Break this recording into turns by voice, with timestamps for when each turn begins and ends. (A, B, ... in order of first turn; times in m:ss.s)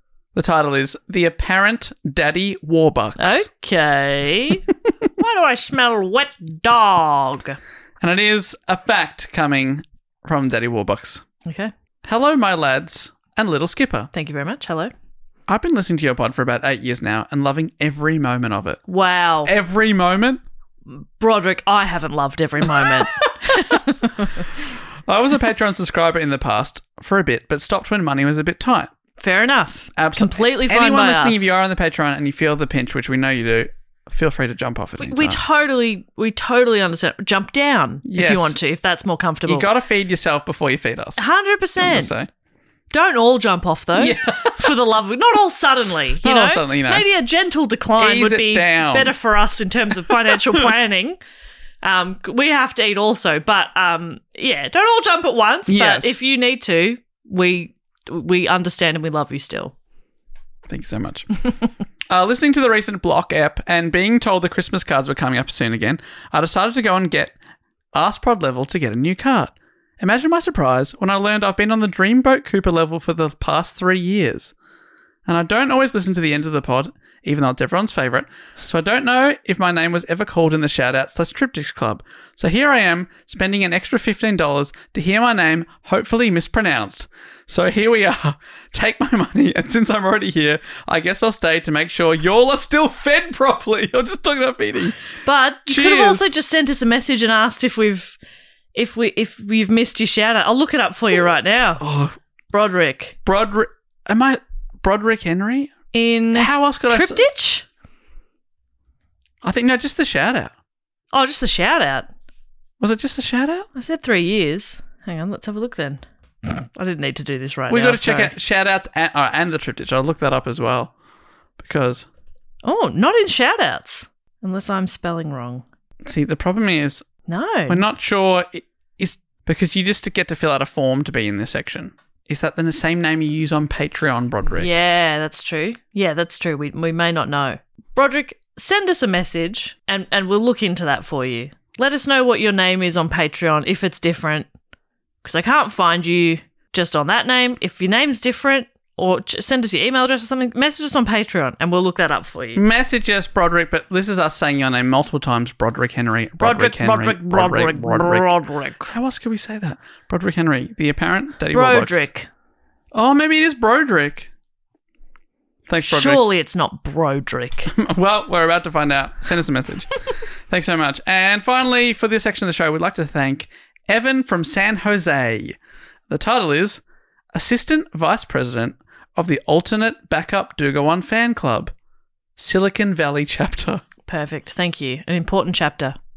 0:00.4-0:03.5 A
0:03.2-0:04.7 B
0:05.2-0:07.6 B
0:08.0-0:11.2 A
0:11.4-0:11.7 B
0:12.0-0:14.1 A
0:14.1-0:14.9 B
0:15.5-0:18.8 A
0:18.9-0:19.5 B
0:19.4-0:20.4 A
0:20.9-0:24.4 B
0:22.7-0:23.8 A
0:25.1-0:28.9 A
0:29.2-0:31.6 B
0:30.0-0:35.4 A
0:35.0-0:39.7 B
0:38.0-0:38.6 A
0:39.4-0:41.2 A
0:41.2-0:42.1 B
0:41.8-0:42.3 A
0:42.9-0:51.2 B
0:43.9-0:44.7 A
0:46.2-0:47.1 A
0:48.0-0:49.2 A
0:50.1-0:50.7 A
0:51.8-0:59.7 B
0:55.7-0:56.2 A
1:00.7-1:01.3 A
1:02.1-1:07.4 A
1:07.9-1:14.5 A
1:15.3-1:35.1 A
1:35.2-1:38.2 B
1:35.7-1:36.3 A
1:38.8-1:41.8 B
1:41.8-1:42.2 A
1:42.5-1:43.2 B
1:43.2-1:45.7 A
1:45.9-1:47.7 B
1:46.3-1:47.3 A
1:49.4-1:50.5 A
1:51.1-1:52.1 B
1:52.8-1:53.7 A
1:53.8-1:58.3 B
1:57.7-2:00.9 A
2:01.6-2:02.1 A
2:02.6-2:05.6 B
2:06.0-2:07.0 A
2:07.3-2:07.8 B
2:07.7-2:14.7 A
2:14.5-2:24.5 B
2:25.2-2:32.6 B
2:32.6-2:38.3 A
2:36.4-2:38.9 B
2:38.9-2:42.1 A
2:41.5-2:42.3 B
2:42.9-2:44.3 A
2:45.7-2:46.2 A
2:45.8-2:47.7 B
2:47.7-2:55.6 A
2:56.1-2:56.8 A
2:57.3-3:01.7 A
3:02.4-3:03.8 A
3:04.1-3:06.0 B